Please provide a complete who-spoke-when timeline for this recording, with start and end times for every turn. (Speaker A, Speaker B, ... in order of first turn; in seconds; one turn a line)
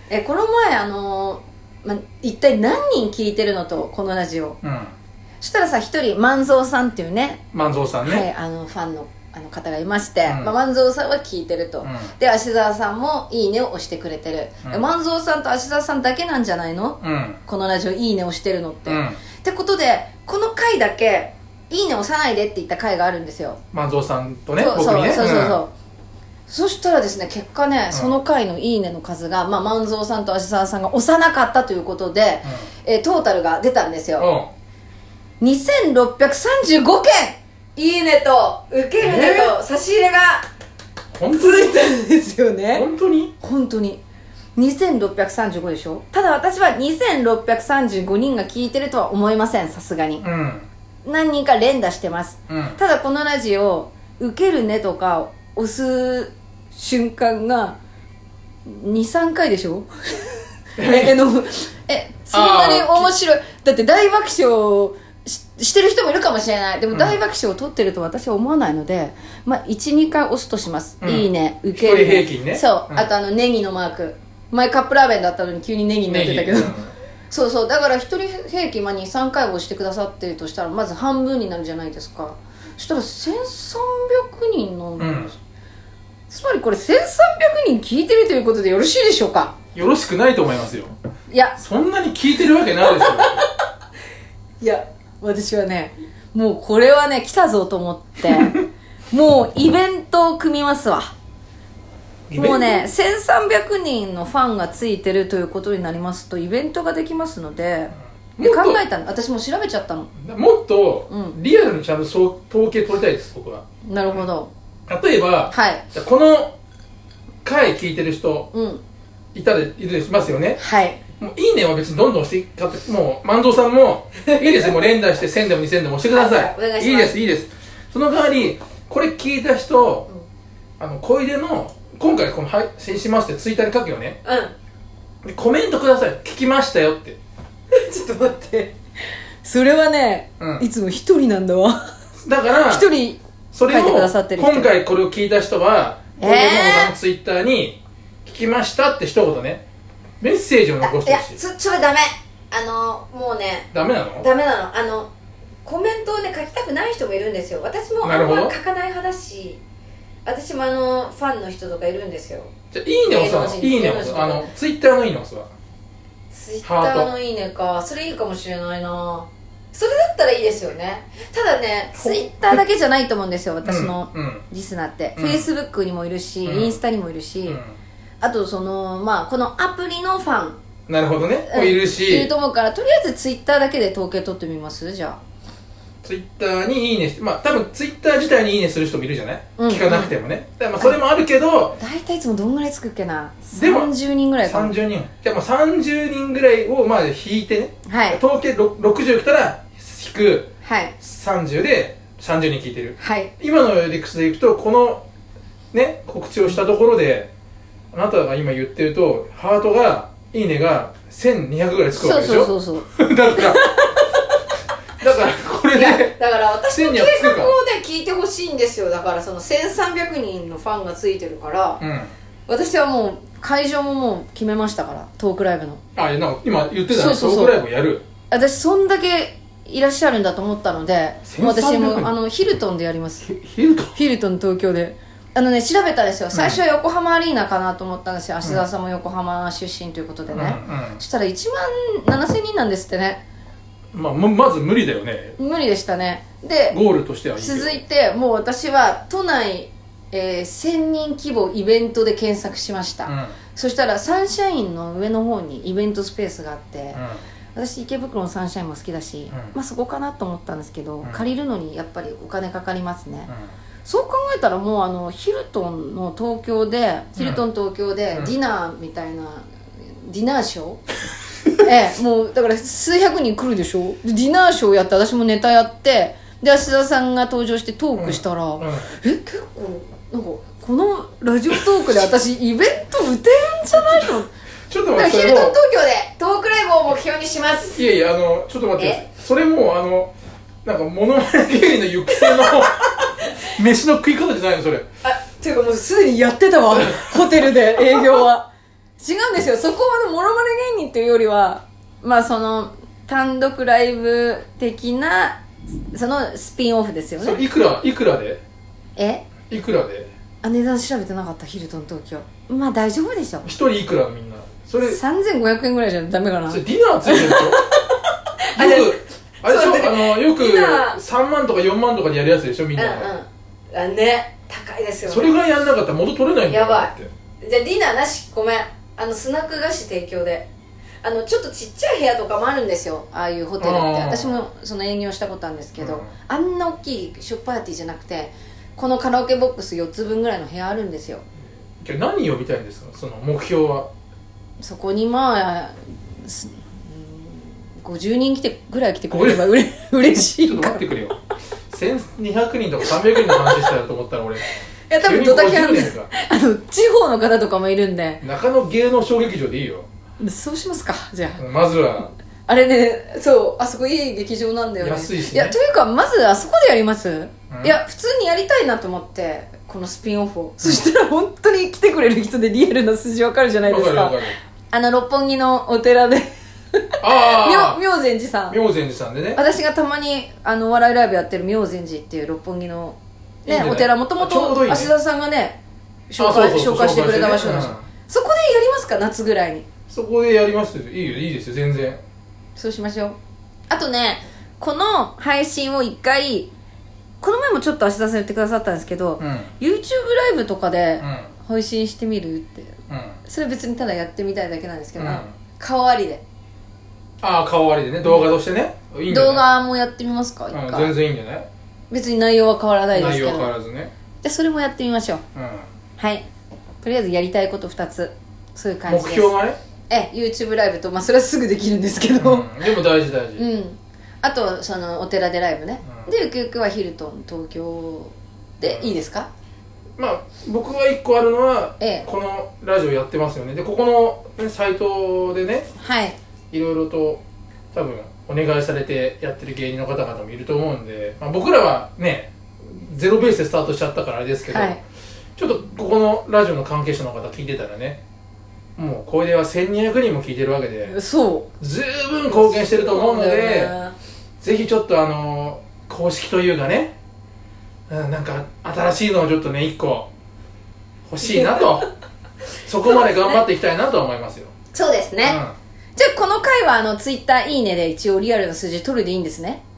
Speaker A: 0.1-4.6
Speaker B: 4.6-5.0
Speaker A: 5.4-7.5
Speaker B: 7.5-8.3
Speaker A: 8.0-23.6
Speaker B: 10.3-10.5
Speaker B: 11.8-12.1
Speaker B: 17.0-17.4
Speaker B: 18.9-19.2
Speaker B: 23.7-25.6
Speaker A: 24.6-25.7
Speaker A: 26.5-34.3
Speaker B: 34.2-34.5
Speaker A: 35.4-40.5
Speaker B: 39.0-39.5
Speaker B: 41.1-41.7
Speaker A: 41.3-42.9
Speaker B: 42.7-43.3
Speaker A: 43.4-44.0
Speaker A: 44.6-50.2
Speaker B: 50.2-50.7
Speaker A: 51.0-57.8
Speaker B: 52.5-52.8
Speaker A: 58.7-76.8
Speaker B: 60.8-61.1
Speaker B: 62.3-63.1
Speaker B: 66.9-67.2
Speaker B: 71.0-73.1
Speaker B: 76.1-76.9
Speaker A: 77.3-85.4
Speaker B: 85.0-85.3
Speaker A: 86.3-89.5
Speaker B: 89.8-90.9
Speaker A: 91.3-91.6
Speaker B: 91.6-93.5
Speaker A: 92.8-93.5
Speaker A: 94.6-101.1
Speaker B: 102.3-102.8
Speaker A: 102.3-110.1
Speaker B: 108.4-108.8
Speaker B: 110.2-113.6
Speaker A: 111.1-111.4
Speaker A: 113.8-114.5
Speaker B: 114.9-116.5
Speaker A: 115.5-115.8
Speaker B: 117.5-118.5
Speaker A: 118.5-118.8
Speaker B: 119.3-120.6
Speaker A: 120.6-121.0
Speaker B: 121.2-130.1
Speaker A: 124.3-124.7
Speaker A: 126.1-127.2
Speaker B: 130.8-134.2
Speaker A: 134.2-134.5
Speaker B: 135.2-137.2
Speaker A: 137.7-138.8
Speaker A: 139.4-141.8
Speaker B: 140.4-140.7
Speaker B: 142.2-142.9
Speaker A: 142.6-144.7
Speaker B: 143.5-149.6
Speaker A: 146.2-146.9
Speaker B: 150.2-151.4
Speaker A: 150.8-155.1
Speaker B: 153.7-154.3
Speaker A: 155.6-159.6
Speaker B: 158.0-158.6
Speaker A: 160.2-162.5
Speaker B: 162.7-165.5
Speaker A: 163.1-164.5
Speaker A: 166.3-177.6
Speaker B: 166.6-167.1
Speaker B: 172.0-172.6
Speaker B: 173.6-174.5
Speaker B: 175.2-175.4
Speaker B: 176.4-176.8
Speaker B: 177.5-177.8
Speaker A: 178.2-180.6
Speaker B: 180.9-182.3
Speaker A: 181.5-185.2
Speaker B: 186.0-191.8
Speaker A: 189.6-190.2
Speaker A: 191.8-194.7
Speaker B: 193.5-193.9
Speaker B: 194.4-205.1
Speaker A: 197.9-198.2
Speaker A: 200.6-200.9
Speaker A: 203.0-203.3
Speaker B: 205.7-207.3
Speaker B: 207.9-213.6
Speaker A: 211.9-214.1
Speaker B: 215.0-217.6
Speaker A: 215.7-221.8
Speaker B: 221.8-222.1
Speaker A: 222.5-225.8
Speaker B: 226.0-228.0
Speaker A: 226.9-227.6
Speaker A: 228.3-233.3
Speaker B: 231.3-232.1
Speaker B: 233.2-233.9
Speaker A: 233.9-243.2
Speaker B: 236.3-236.6
Speaker B: 240.3-241.0
Speaker B: 243.9-245.4
Speaker A: 245.4-246.8
Speaker B: 246.7-247.8
Speaker A: 247.3-257.0
Speaker B: 253.1-253.3
Speaker B: 256.9-257.2
Speaker A: 257.6-263.3
Speaker A: 263.9-269.5
Speaker B: 267.2-267.4
Speaker A: 270.0-270.8
Speaker A: 271.6-284.3
Speaker B: 278.0-278.9
Speaker B: 284.7-285.6
Speaker A: 284.9-287.8
Speaker B: 287.8-290.1
Speaker A: 288.8-289.0
Speaker B: 290.6-292.9
Speaker A: 292.1-293.1
Speaker B: 293.5-294.9
Speaker A: 295.0-305.4
Speaker A: 305.9-307.4
Speaker B: 307.2-308.4
Speaker A: 309.0-309.3
Speaker B: 309.5-310.1
Speaker A: 310.4-313.5
Speaker B: 313.4-315.0
Speaker A: 314.8-321.0
Speaker B: 316.5-317.6
Speaker B: 318.6-323.1
Speaker A: 322.8-325.3
Speaker B: 325.1-327.1
Speaker A: 326.5-330.5
Speaker A: 331.0-341.2
Speaker B: 333.6-334.4
Speaker B: 335.8-336.1
Speaker B: 341.8-343.9
Speaker A: 344.6-350.9
Speaker B: 349.1-349.5
Speaker B: 350.4-351.2
Speaker B: 351.7-354.5
Speaker A: 353.2-353.7
Speaker A: 354.9-358.2
Speaker B: 355.0-356.1
Speaker B: 358.2-359.9
Speaker A: 360.2-361.4
Speaker B: 361.4-362.1
Speaker A: 362.5-378.6
Speaker B: 364.8-365.6
Speaker B: 367.5-367.8
Speaker B: 373.6-374.4
Speaker B: 377.0-377.8
Speaker B: 378.5-379.4
Speaker A: 379.4-385.6
Speaker B: 383.4-384.9
Speaker A: 386.1-389.7
Speaker B: 386.2-387.9
Speaker B: 389.9-392.0
Speaker A: 392.6-393.2
Speaker A: 393.7-396.5
Speaker A: 397.2-406.2
Speaker B: 399.2-399.5
Speaker B: 401.0-401.3
Speaker B: 402.9-403.2
Speaker B: 405.0-405.3
Speaker B: 407.2-409.4
Speaker A: 409.1-410.9
Speaker B: 410.5-411.5
Speaker A: 411.9-413.5
Speaker B: 412.9-413.9
Speaker A: 414.2-415.2
Speaker B: 415.4-415.7
Speaker A: 416.0-416.3
Speaker A: 416.8-419.3
Speaker B: 418.9-419.6
Speaker A: 419.9-422.6
Speaker B: 422.2-423.4
Speaker A: 423.4-429.3
Speaker B: 425.8-426.1
Speaker B: 428.6-428.9
Speaker B: 430.0-435.7
Speaker A: 431.8-432.1
Speaker A: 435.8-436.2
Speaker B: 436.5-437.2
Speaker B: 437.7-444.8
Speaker A: 444.5-444.8
Speaker B: 445.4-448.0
Speaker B: 448.8-451.0
Speaker A: 450.9-451.5
Speaker B: 451.6-453.7
Speaker A: 452.3-453.9
Speaker B: 454.4-456.9
Speaker B: 457.9-460.1
Speaker B: 461.1-461.9
Speaker A: 461.2-461.7
Speaker B: 462.6-464.5
Speaker A: 462.9-463.4
Speaker A: 464.7-465.4
Speaker B: 465.2-465.6
Speaker A: 466.0-469.6